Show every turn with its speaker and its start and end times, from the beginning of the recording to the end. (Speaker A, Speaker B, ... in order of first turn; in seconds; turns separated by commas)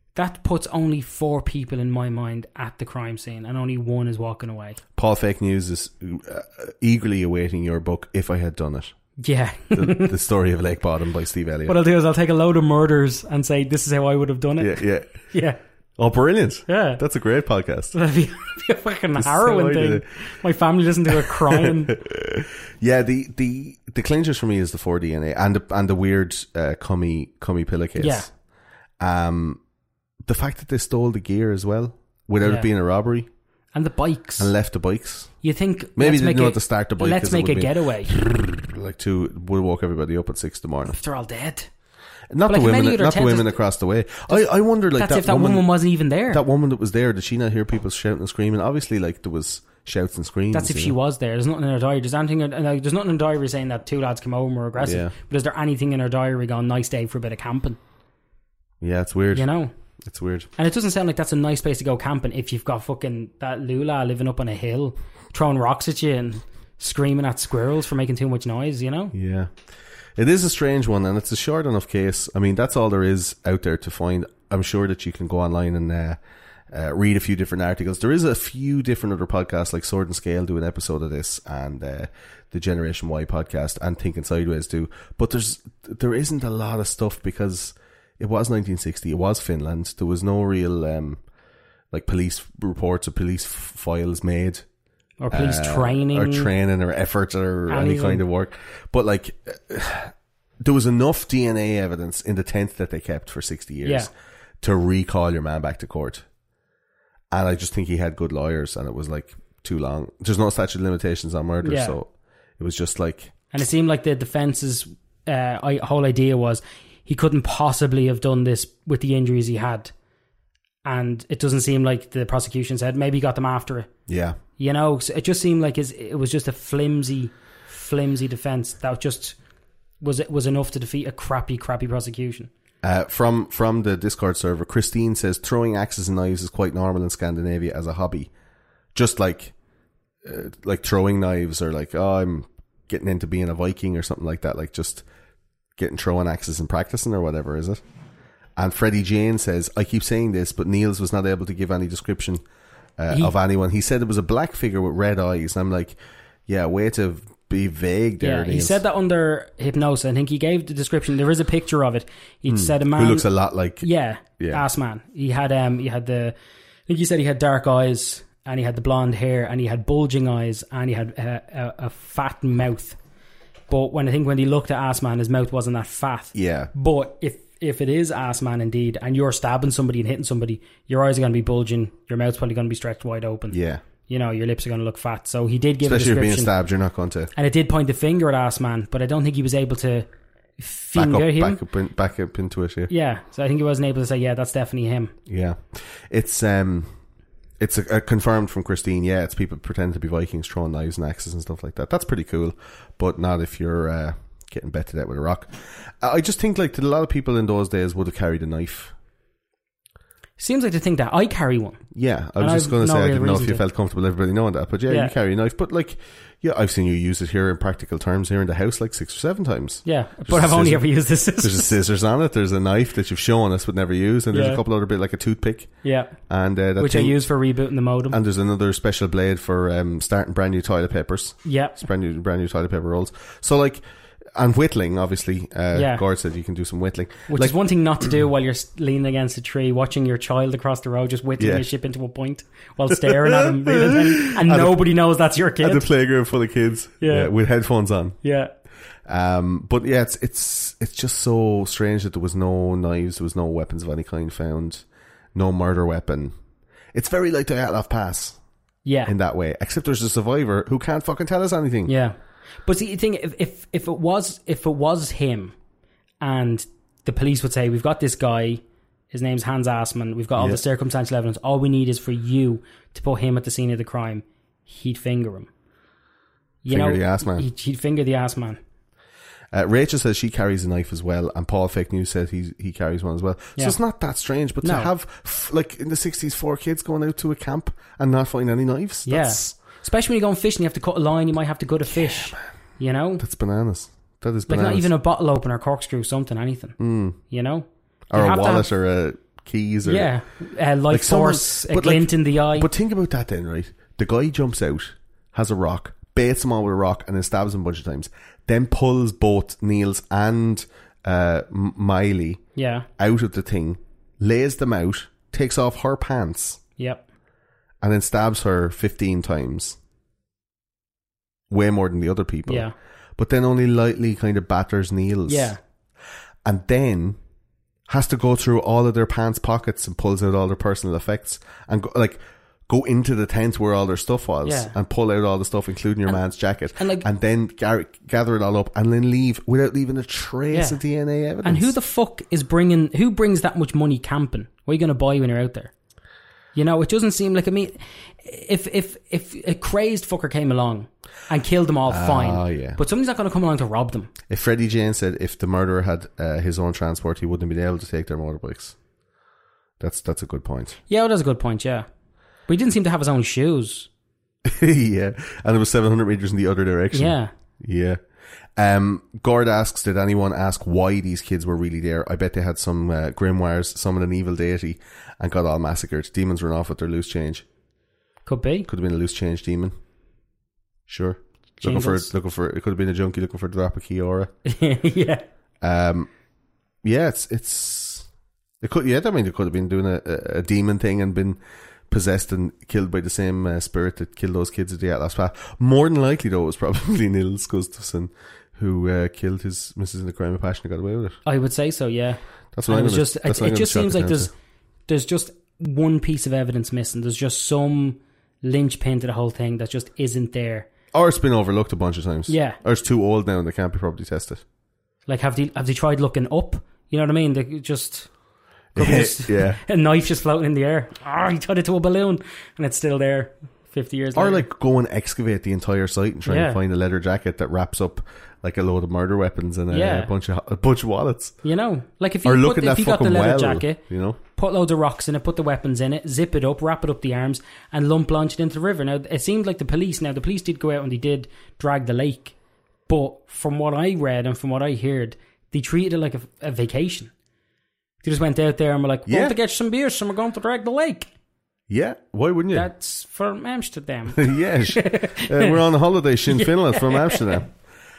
Speaker A: 0.1-4.8, Speaker B: 5.0-8.9, Speaker A: 9.2-10.1, Speaker B: 9.7-11.8, Speaker A: 11.7-15.6, Speaker B: 14.6-15.1, Speaker B: 16.0-17.9, Speaker A: 16.7-17.0, Speaker A: 17.9-21.9, Speaker B: 19.2-20.1, Speaker B: 21.1-28.3, Speaker A: 28.0-28.3, Speaker B: 29.0-29.6, Speaker B: 30.2-33.3, Speaker A: 32.4-32.7, Speaker A: 33.7-34.5, Speaker B: 34.4-35.3, Speaker A: 35.4-38.1, Speaker B: 36.0-40.9, Speaker A: 40.9-41.7, Speaker B: 42.3-45.7, Speaker A: 42.5-43.6, Speaker A: 44.9-46.4, Speaker B: 46.3-51.0, Speaker A: 50.5-57.8, Speaker B: 54.8-55.1, Speaker B: 58.8-59.5, Speaker A: 59.3-59.7, Speaker B: 60.0-60.5, Speaker A: 60.6-69.1, Speaker B: 69.1-69.5, Speaker B: 70.2-76.2, Speaker B: 76.7-91.2, Speaker B: 91.9-94.6, Speaker A: 95.2-96.5, Speaker B: 95.3-104.1, Speaker A: 97.7-98.2, Speaker B: 104.6-106.2, Speaker B: 107.3-113.3, Speaker A: 111.6-112.0, Speaker A: 113.5-119.9, Speaker A: 120.8-123.9, Speaker B: 124.1-124.4, Speaker A: 124.6-129.3, Speaker A: 130.0-132.5, Speaker B: 132.8-138.3, Speaker B: 138.9-139.5, Speaker B: 140.2-145.0, Speaker B: 145.8-147.8, Speaker B: 148.6-152.4, Speaker B: 153.0-158.8, Speaker A: 158.2-163.3, Speaker B: 162.5-163.9, Speaker A: 163.8-166.3, Speaker B: 164.4-164.7, Speaker A: 166.9-173.0, Speaker A: 173.7-186.5, Speaker B: 176.3-176.7, Speaker B: 183.5-183.8, Speaker B: 185.8-187.3, Speaker A: 187.3-190.1, Speaker A: 190.6-191.6, Speaker B: 190.9-192.9, Speaker A: 192.9-195.1, Speaker B: 195.3-196.9, Speaker B: 197.6-208.9, Speaker A: 210.4-211.8, Speaker B: 211.9-225.7, Speaker A: 212.4-213.6, Speaker A: 219.8-221.7, Speaker A: 224.3-224.6, Speaker A: 225.8-226.1, Speaker B: 226.3-227.2, Speaker A: 226.8-228.2, Speaker B: 228.1-233.8, Speaker A: 231.4-231.8, Speaker B: 234.3-237.6, Speaker A: 235.7-236.0, Speaker A: 237.3-245.8, Speaker B: 241.4-241.7, Speaker B: 242.9-244.9, Speaker B: 245.6-248.2, Speaker A: 247.0-247.3, Speaker A: 248.2-248.5, Speaker B: 249.1-254.8, Speaker B: 255.3-256.3, Speaker B: 256.9-258.4, Speaker A: 258.8-259.1, Speaker B: 259.1-261.9, Speaker A: 261.9-265.5, Speaker A: 266.2-275.5, Speaker B: 270.3-270.6, Speaker A: 276.6-278.6, Speaker B: 276.7-277.5, Speaker B: 279.5-289.5, Speaker A: 284.6-284.9, Speaker A: 289.0-293.2, Speaker B: 293.2-294.9, Speaker A: 294.5-296.8, Speaker B: 296.8-297.2, Speaker A: 297.3-298.7, Speaker B: 298.1-300.1, Speaker A: 299.8-302.7, Speaker B: 300.9-312.4, Speaker A: 312.5-312.9, Speaker B: 313.0-316.6, Speaker A: 316.8-317.0, Speaker B: 317.8-319.8, Speaker B: 321.5-325.6, Speaker A: 322.5-322.7, Speaker A: 325.3-325.6, Speaker B: 326.4-327.2, Speaker B: 327.9-341.7, Speaker A: 334.4-334.7, Speaker A: 336.8-337.0, Speaker A: 340.5-340.8, Speaker A: 341.4-345.7, Speaker A: 346.5-354.1, Speaker B: 351.9-352.8, Speaker B: 354.3-358.8, Speaker B: 359.8-360.8, Speaker A: 360.9-361.9, Speaker A: 362.5-363.9, Speaker B: 364.4-368.0, Speaker A: 366.9-367.3, Speaker B: 368.6-377.4, Speaker A: 378.2-378.7, Speaker B: 378.7-379.7, Speaker B: 380.9-384.3, Speaker A: 381.6-382.1, Speaker A: 384.4-385.2, Speaker B: 385.6-386.1, Speaker B: 386.8-388.1, Speaker B: 388.6-391.4, Speaker B: 391.9-401.2, Speaker A: 401.2-404.3, Speaker B: 402.5-404.3, Speaker A: 404.9-410.7, Speaker B: 410.9-414.4, Speaker A: 412.3-412.6, Speaker A: 415.1-418.1, Speaker B: 418.7-419.6, Speaker A: 418.8-424.4, Speaker B: 424.1-431.3, Speaker A: 426.2-426.6, Speaker A: 429.7-430.1, Speaker A: 431.4-433.8, Speaker B: 432.2-434.2, Speaker A: 434.4-442.3, Speaker A: 442.9-447.1, Speaker A: 448.0-451.1, Speaker B: 449.1-449.4, Speaker B: 451.7-452.7, Speaker A: 452.5-455.6, Speaker B: 454.1-457.5, Speaker A: 456.3-457.3